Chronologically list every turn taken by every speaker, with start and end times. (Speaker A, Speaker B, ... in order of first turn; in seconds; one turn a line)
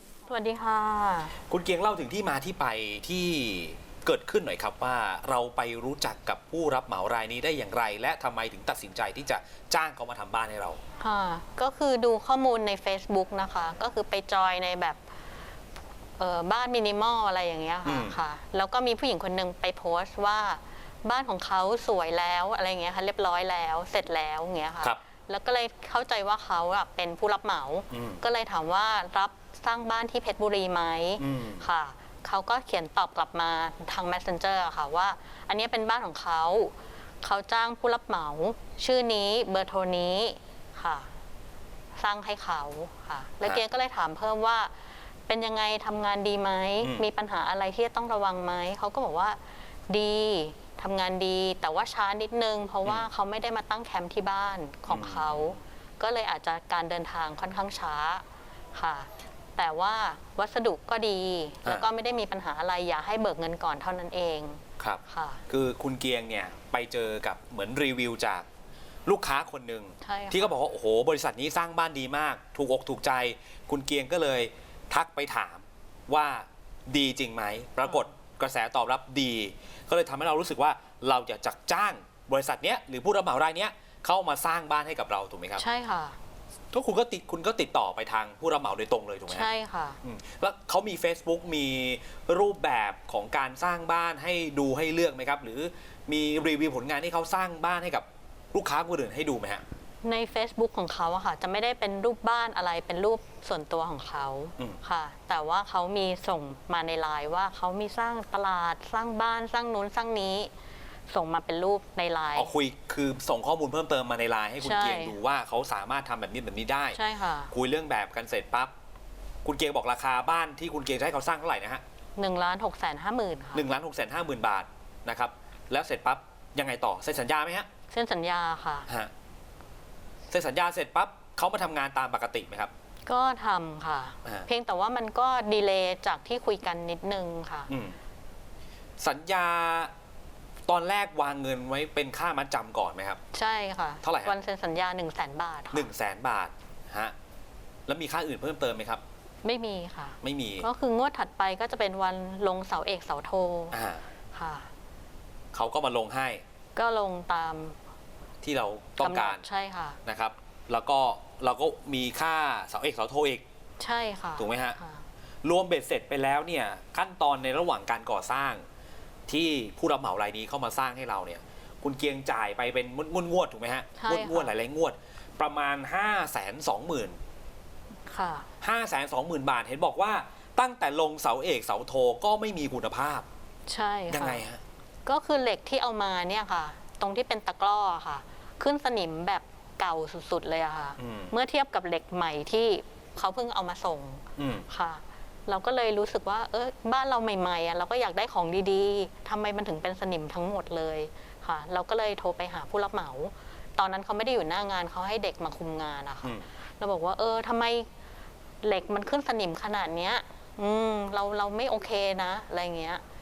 Speaker A: 0.2-1.3
Speaker B: 1.5-10.8
Speaker A: 11.0-15.0
Speaker A: 16.2-41.1
Speaker B: 17.8-18.2
Speaker B: 27.9-28.2
Speaker B: 31.2-31.6
Speaker A: 42.0-65.4
Speaker B: 54.9-55.6
Speaker B: 64.8-68.5
Speaker B: 69.0-85.6
Speaker A: 70.0-70.5
Speaker A: 85.6-86.2
Speaker B: 86.7-89.5
Speaker A: 89.3-90.0
Speaker B: 90.0-99.6
Speaker A: 100.0-110.5
Speaker A: 111.1-112.5
Speaker B: 112.3-117.0
Speaker A: 114.6-115.2
Speaker A: 116.9-117.5
Speaker B: 117.5-118.7
Speaker B: 119.4-121.8
Speaker A: 122.2-123.7
Speaker B: 123.5-127.7
Speaker A: 127.9-128.9
Speaker B: 130.3-132.7
Speaker A: 133.1-137.7
Speaker B: 137.7-138.0
Speaker B: 139.0-139.9
Speaker B: 140.7-143.2
Speaker A: 143.3-145.9
Speaker B: 144.0-144.3
Speaker B: 145.7-147.1
Speaker B: 147.9-149.0
Speaker A: 149.4-153.8
Speaker B: 150.2-150.7
Speaker B: 153.7-154.0
Speaker A: 154.3-154.7
Speaker B: 155.5-156.4
Speaker A: 156.7-157.8
Speaker B: 158.4-159.4
Speaker A: 159.0-160.0
Speaker B: 160.0-163.4
Speaker A: 163.8-165.0
Speaker B: 164.4-164.8
Speaker B: 165.4-168.6
Speaker B: 169.3-177.2
Speaker A: 174.0-174.5
Speaker A: 178.1-178.5
Speaker B: 178.6-183.2
Speaker A: 183.7-184.4
Speaker B: 184.1-184.6
Speaker A: 185.0-207.9
Speaker B: 191.0-191.3
Speaker B: 194.4-194.7
Speaker A: 208.6-213.0